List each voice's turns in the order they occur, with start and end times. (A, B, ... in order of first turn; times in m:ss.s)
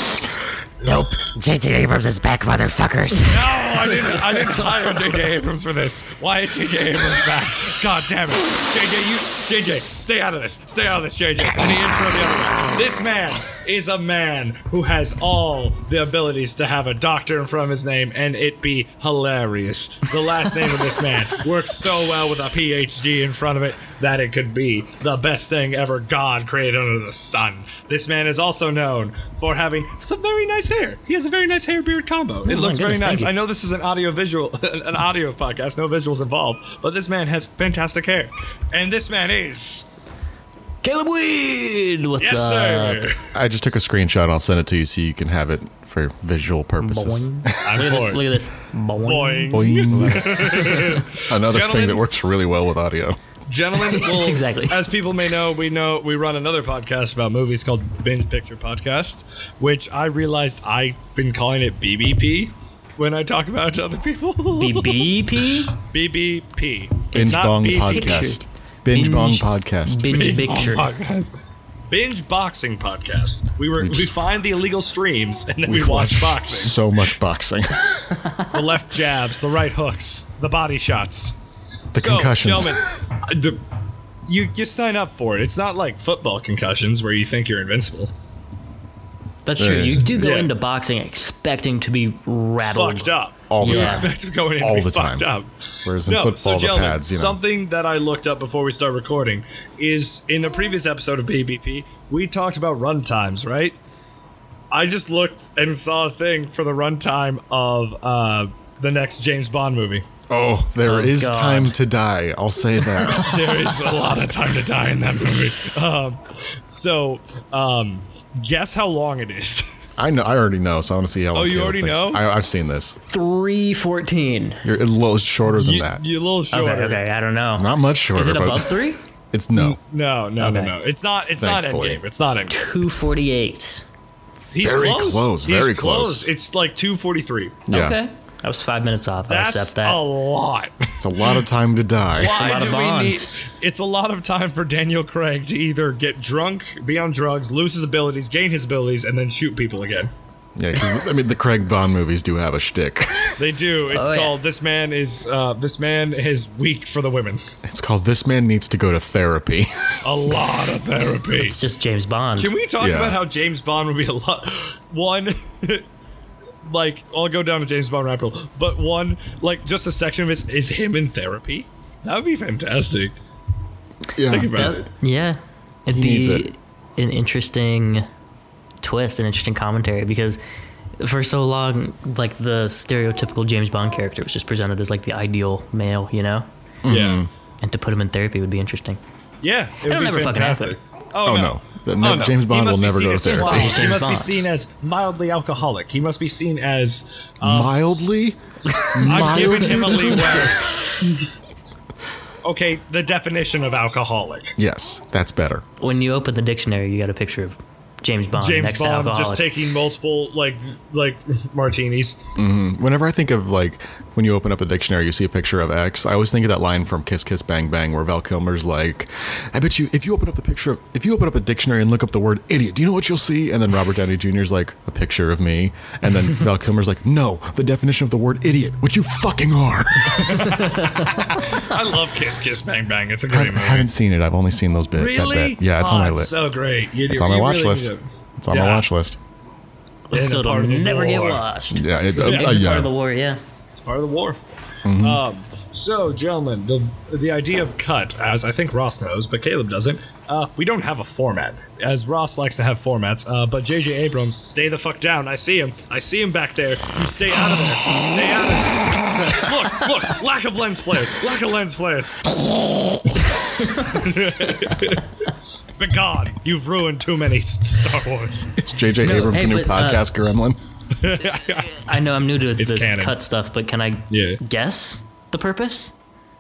0:00.8-0:04.3 A
0:03.3-0:39.8 B
0:32.4-0:33.3 C
0:40.8-0:43.1 C
0:42.2-0:43.2 B
0:43.3-0:47.8 D
0:46.8-0:51.0 C
0:47.6-0:48.2 B
0:49.0-0:52.0 B
0:49.5-0:53.2 D
0:53.5-1:05.1 B
0:53.8-0:54.8 C
1:04.6-1:05.8 C
1:05.7-1:08.3 B
1:07.1-1:10.1 D
1:07.1-1:10.9 C
1:10.1-1:11.3 B
1:11.9-1:16.8 B
1:13.8-1:14.1 D
1:15.7-1:18.1 D
1:18.5-1:21.4 B
1:21.9-1:22.8 D
1:21.9-1:23.6 B
1:24.3-1:28.1 B
1:29.4-1:33.1 C
1:29.6-1:30.1 D
1:30.1-1:30.5 B
1:32.6-1:35.5 B
1:33.5-1:35.3 D
1:33.6-1:34.1 C
1:35.8-1:37.4 D
1:36.0-1:43.8 B
1:44.7-1:50.1 B
1:50.3-1:53.6 D
1:50.8-1:51.7 C
1:53.0-1:59.7 B
2:00.0-2:03.0 D
2:01.3-2:02.2 B
2:03.0-2:04.6 C
2:04.6-2:06.0 D
2:05.4-2:07.0 B
2:06.5-2:09.0 C
2:07.6-2:08.8 D
2:09.3-2:09.8 D
2:09.5-2:13.0 B
2:10.4-2:10.7 C
2:11.4-2:12.0 D
2:12.5-2:13.8 C
2:14.5-2:17.6 B
2:14.6-2:16.3 D
2:17.7-2:18.0 D
2:17.7-2:20.0 C
2:19.3-2:21.3 B
2:21.0-2:22.5 D
2:22.2-2:30.1 B
2:22.2-2:23.3 C
2:30.6-2:33.4 D
2:33.4-2:37.5 B
2:33.9-2:34.4 C
2:37.6-2:40.0 D
2:40.0-2:41.6 B
2:41.3-2:42.5 C
2:42.4-2:45.8 B
2:42.8-2:43.2 D
2:46.6-2:53.1 B
2:54.1-2:54.7 D
2:54.3-2:54.9 B
2:54.5-2:58.0 C
2:55.9-2:56.4 D
2:58.8-3:00.4 C
3:01.0-3:06.5 C
3:06.8-3:07.3 D
3:06.9-3:07.2 B
3:07.6-3:09.0 C
3:09.4-3:18.1 B
3:09.8-3:10.8 C
3:11.2-3:13.9 D
3:13.2-3:14.4 C
3:17.4-3:18.4 D
3:18.7-3:20.2 C
3:18.9-3:20.4 D
3:19.0-3:21.1 B
3:22.4-3:24.5 B
3:24.6-3:25.6 D
3:25.8-3:29.4 C
3:28.4-3:32.4 B
3:32.4-3:50.6 D
3:50.1-3:53.9 B
3:50.6-3:51.4 C
3:53.3-3:56.3 D
3:54.9-3:58.9 B
3:57.1-3:59.2 D
4:00.1-4:03.4 C
4:00.1-4:01.4 B
4:01.7-4:02.9 D
4:02.2-4:02.6 B
4:03.7-4:22.2 B
4:04.8-4:05.2 D
4:23.8-4:25.0 B
4:25.8-4:28.5 B
4:28.6-4:30.6 D
4:29.0-4:30.1 C
4:31.0-4:31.8 B
4:31.7-4:35.9 C
4:32.6-4:33.2 B
4:34.1-4:34.4 B